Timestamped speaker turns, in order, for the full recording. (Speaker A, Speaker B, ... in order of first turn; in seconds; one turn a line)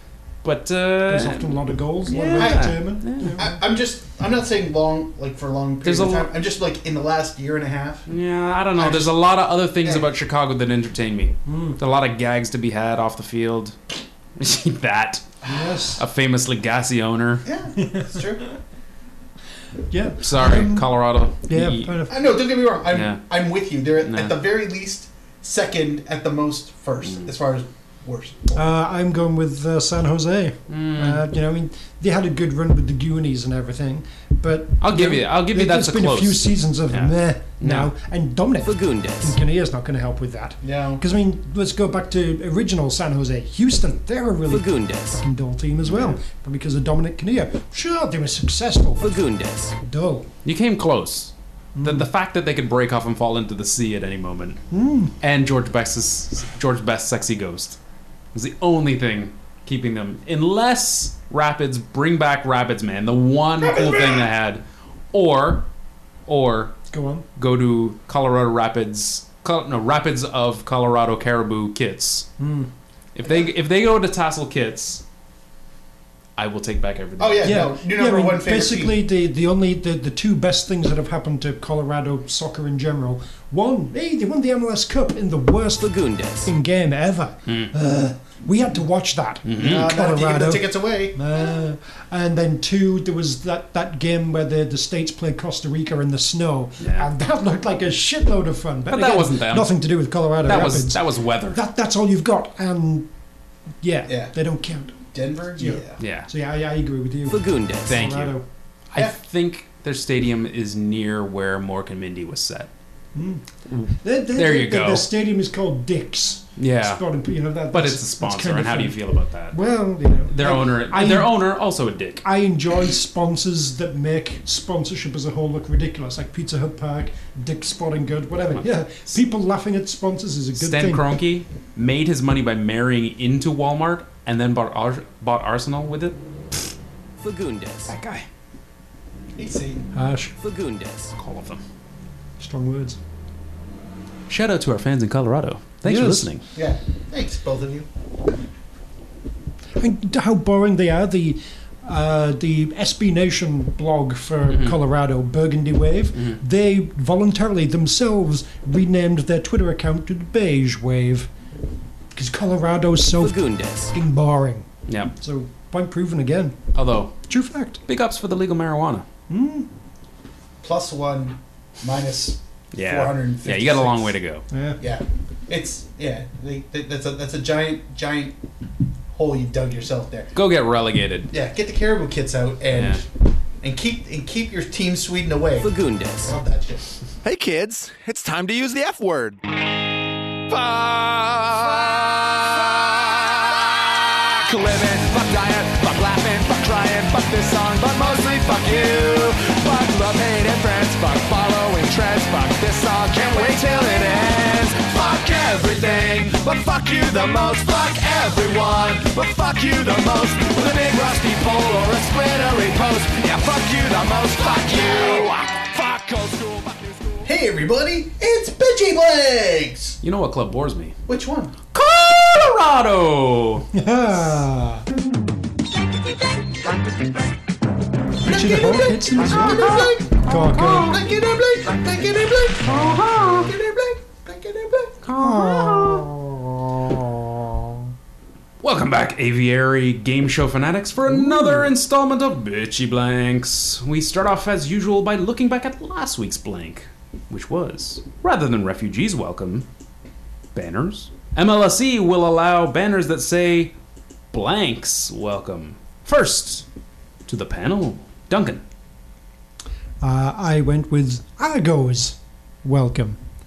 Speaker A: 0.4-3.4
Speaker B: 1.1-3.6
Speaker C: 2.3-2.8
Speaker C: 3.3-8.1
Speaker A: 5.8-6.3
Speaker A: 8.1-13.8
Speaker C: 8.7-9.1
Speaker C: 9.8-10.1
Speaker B: 11.4-11.8
Speaker A: 14.4-15.3
Speaker B: 15.5-16.0
Speaker A: 15.9-17.5
Speaker C: 17.4-18.5
Speaker B: 17.8-18.2
Speaker B: 19.9-20.9
Speaker A: 20.2-22.0
Speaker B: 21.4-22.2
Speaker C: 22.1-28.6
Speaker A: 22.9-23.2
Speaker A: 24.0-24.4
Speaker A: 27.0-27.3
Speaker B: 28.5-49.2
Speaker A: 30.7-31.2
Speaker A: 34.8-37.9
Speaker D: 38.6-39.3
Speaker C: 40.6-41.0
Speaker D: 44.5-45.2
Speaker A: 45.8-46.2
Speaker D: 49.0-49.7
Speaker B: 49.8-50.3
Speaker A: 50.4-54.6
Speaker B: 51.8-52.1
Speaker B: 54.7-55.1
Speaker A: 55.2-57.8
Speaker A: 58.3-65.7
Speaker C: 63.6-64.2
Speaker A: 66.3-66.7
Speaker B: 66.9-67.2
Speaker A: 67.4-72.3
Speaker B: 72.4-72.7
Speaker A: 73.1-75.0
Speaker A: 76.4-77.7
Speaker C: 77.2-79.0
Speaker B: 77.4-103.1
Speaker D: 85.8-86.5
Speaker A: 89.4-89.9
Speaker C: 89.6-91.2
Speaker A: 96.8-97.1
Speaker A: 98.9-99.8
Speaker A: 100.4-101.6
Speaker B: 103.8-105.0
Speaker C: 105.1-106.0
Speaker B: 105.5-108.4
Speaker A: 106.0-106.3
Speaker D: 107.3-108.0
Speaker A: 107.9-108.3
Speaker A: 108.9-112.7
Speaker B: 113.1-119.0
Speaker A: 113.7-115.1
Speaker A: 116.6-117.0
Speaker A: 117.7-119.6
Speaker B: 119.5-121.5
Speaker A: 120.3-122.2
Speaker B: 122.2-131.0
Speaker A: 128.6-129.2
Speaker A: 130.6-136.7
Speaker D: 137.2-137.9
Speaker A: 137.9-138.2
Speaker C: 139.3-139.9
Speaker B: 139.9-140.3
Speaker D: 140.4-141.1
Speaker A: 141.2-141.6
Speaker B: 142.4-143.0
Speaker A: 144.3-146.4
Speaker B: 145.8-146.3
Speaker C: 146.5-147.9
Speaker B: 149.7-161.3
Speaker A: 154.5-154.8
Speaker B: 162.1-166.6
Speaker D: 163.2-163.9
Speaker A: 164.9-165.1
Speaker A: 166.7-167.1
Speaker B: 167.3-167.8
Speaker A: 167.8-169.0
Speaker B: 169.3-169.7
Speaker C: 170.6-174.2
Speaker A: 172.7-174.4
Speaker B: 174.5-174.8
Speaker C: 174.8-178.3
Speaker C: 179.1-180.3
Speaker A: 180.3-181.3
Speaker C: 181.3-183.1
Speaker A: 182.7-183.0
Speaker C: 183.6-185.7
Speaker D: 185.6-186.3
Speaker C: 186.2-186.9
Speaker E: 187.2-189.4
Speaker E: 190.5-217.3
Speaker C: 217.2-220.0
Speaker A: 220.0-220.9
Speaker C: 221.1-221.5
Speaker A: 221.7-223.7
Speaker B: 223.7-224.8
Speaker B: 228.2-231.0
Speaker C: 228.2-235.0
Speaker A: 229.2-231.0
Speaker A: 232.6-233.5
Speaker B: 232.7-233.0
Speaker A: 235.0-236.1
Speaker B: 235.2-237.8
Speaker A: 238.6-249.7
Speaker B: 241.1-241.7
Speaker A: 250.5-253.7
Speaker A: 254.3-256.6
Speaker A: 257.2-258.6
Speaker B: 260.0-263.2